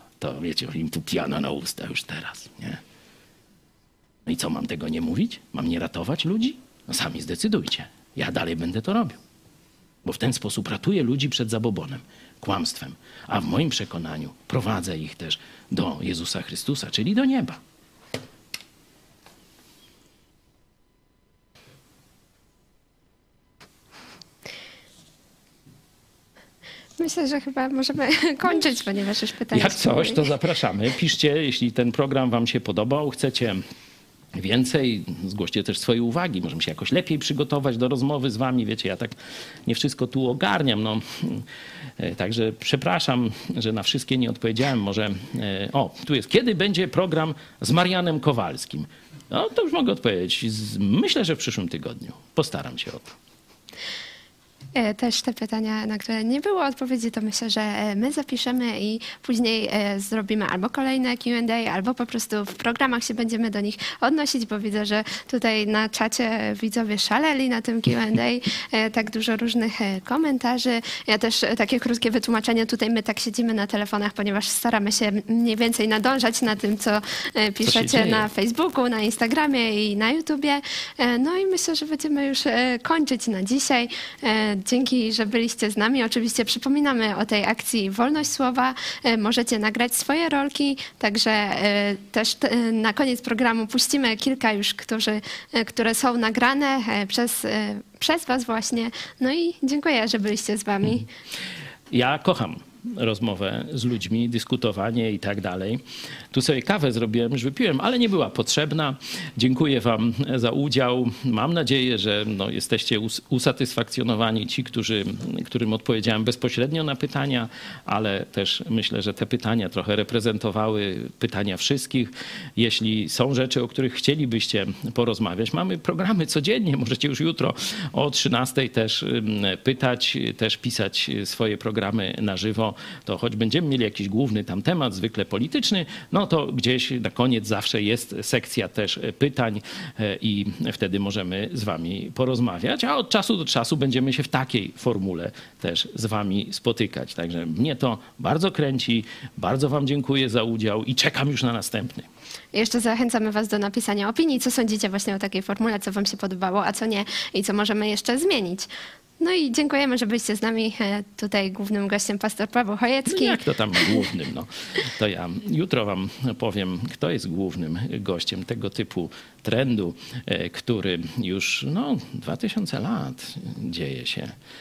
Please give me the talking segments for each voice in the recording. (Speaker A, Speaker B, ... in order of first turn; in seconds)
Speaker A: 0.2-2.8, 4.3-9.2, 10.1-17.6, 29.5-33.6, 34.4-39.1, 39.7-41.5, 42.0-53.1, 77.6-78.3, 101.9-152.1, 163.1-174.3
Speaker B: 27.0-30.2, 54.8-101.1, 152.5-158.7, 159.2-163.4